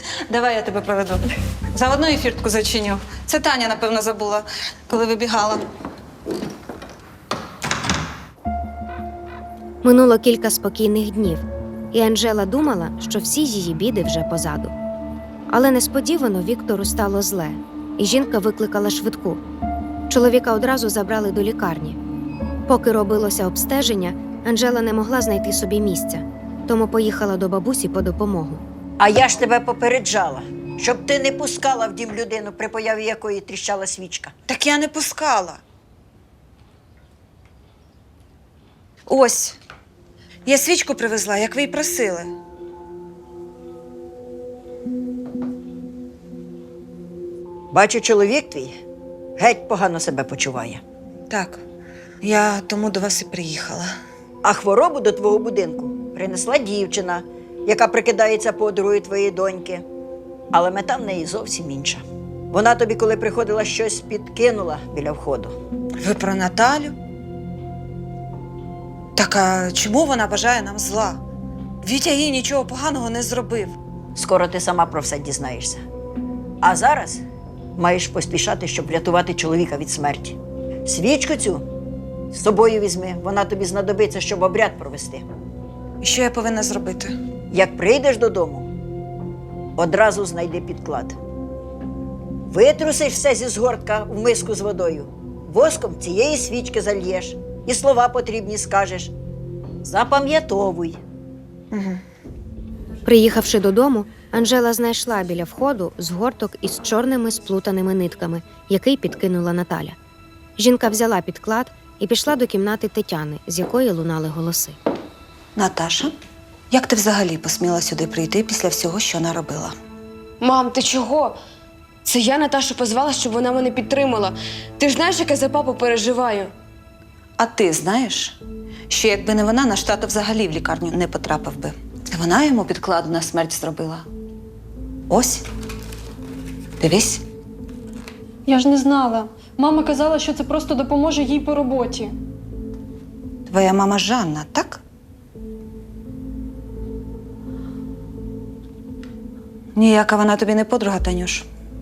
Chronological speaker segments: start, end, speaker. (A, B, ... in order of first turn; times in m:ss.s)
0:00.3-0:05.6 A
0:09.8-0:14.7 B
0:15.5-0:19.4 B
0:20.1-0:22.0 B
0:22.7-0:28.6 B
0:29.0-0:34.3 C
0:34.5-0:35.6 A
0:39.1-0:39.6 A
0:40.5-0:42.3 A
0:47.7-0:48.8 C
0:49.4-0:50.8 C
0:51.3-0:51.6 A
0:52.2-0:53.9 A
0:54.4-0:59.8 C
1:00.5-1:05.6 C
1:06.0-1:06.9 A
1:09.2-1:11.2 A
1:11.8-1:13.8 A
1:14.2-1:15.8 C
1:16.6-1:17.2 C
1:17.8-1:21.7 C
1:22.3-1:25.2 C
1:26.0-1:27.1 A
1:27.5-1:28.7 C
1:29.8-1:31.2 C
1:32.5-1:39.1 C
1:39.8-1:41.0 C
1:41.7-1:42.0 A
1:43.1-1:50.0 B
1:50.6-1:54.8 B
1:55.6-1:56.1 A
1:56.7-1:59.7 A
2:00.4-2:01.4 D
2:02.0-2:06.5 D
2:07.4-2:08.4 A
2:08.9-2:14.1 A
2:15.1-2:15.4 A
2:16.8-2:17.2 A
2:18.5-2:22.1 E
2:23.5-2:24.8 A
2:29.8-2:31.5 A